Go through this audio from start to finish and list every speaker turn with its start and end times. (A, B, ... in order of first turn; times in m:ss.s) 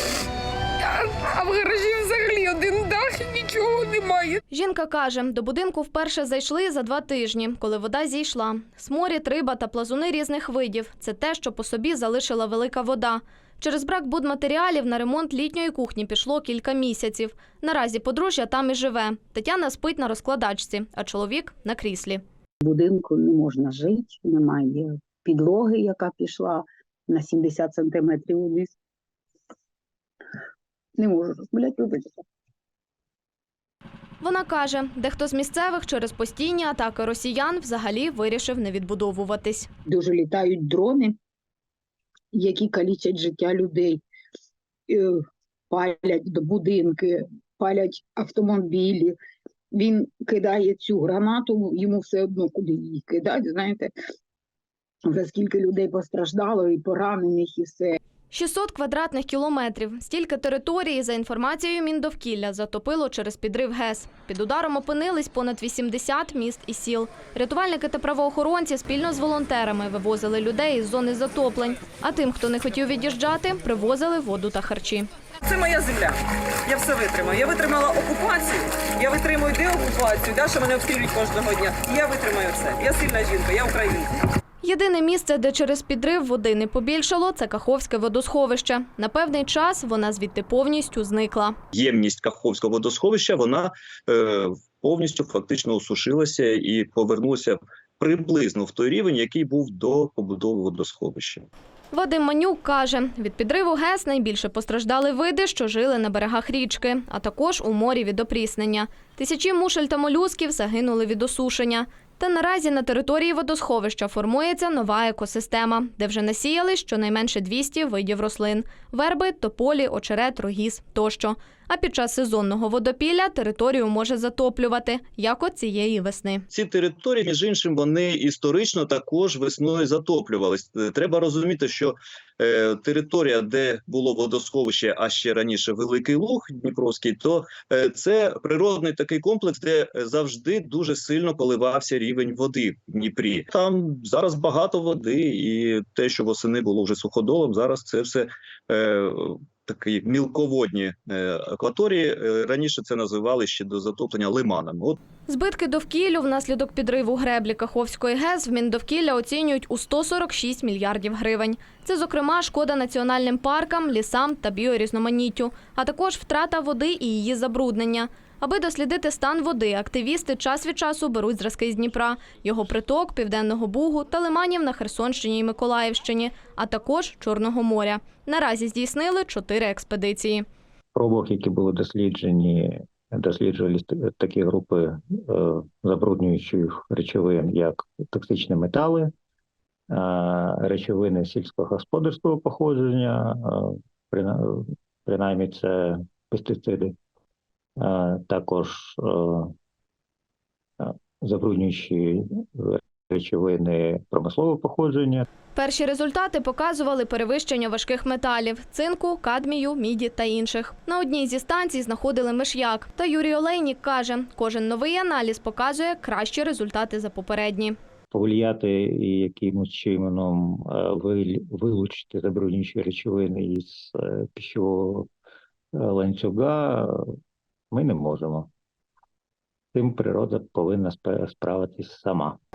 0:01.4-0:04.4 A
0:04.5-0:22.2 B
0:22.6-0:28.7 C
0:31.0-0:32.1 C
0:34.2-0:39.7 B
0:39.9-0:41.1 C
0:42.3-0:44.0 C
0:44.9-0:45.2 C
0:45.7-0:49.1 C
0:49.7-0:53.9 C
0:55.0-0:58.0 C
0:58.3-1:15.1 B
1:15.4-1:24.1 D
1:24.6-1:31.6 B
1:31.7-1:41.4 E
1:41.9-2:06.4 B
2:06.5-2:35.0 E
2:35.3-3:00.4 B
3:00.9-3:09.1 F
3:09.9-3:17.0 F
3:17.8-3:19.5 F
3:20.8-3:25.3 F
3:25.5-3:37.8 B
3:38.1-3:45.1 F
3:45.8-3:47.0 F
3:47.7-3:48.5 F
3:49.7-3:52.4 F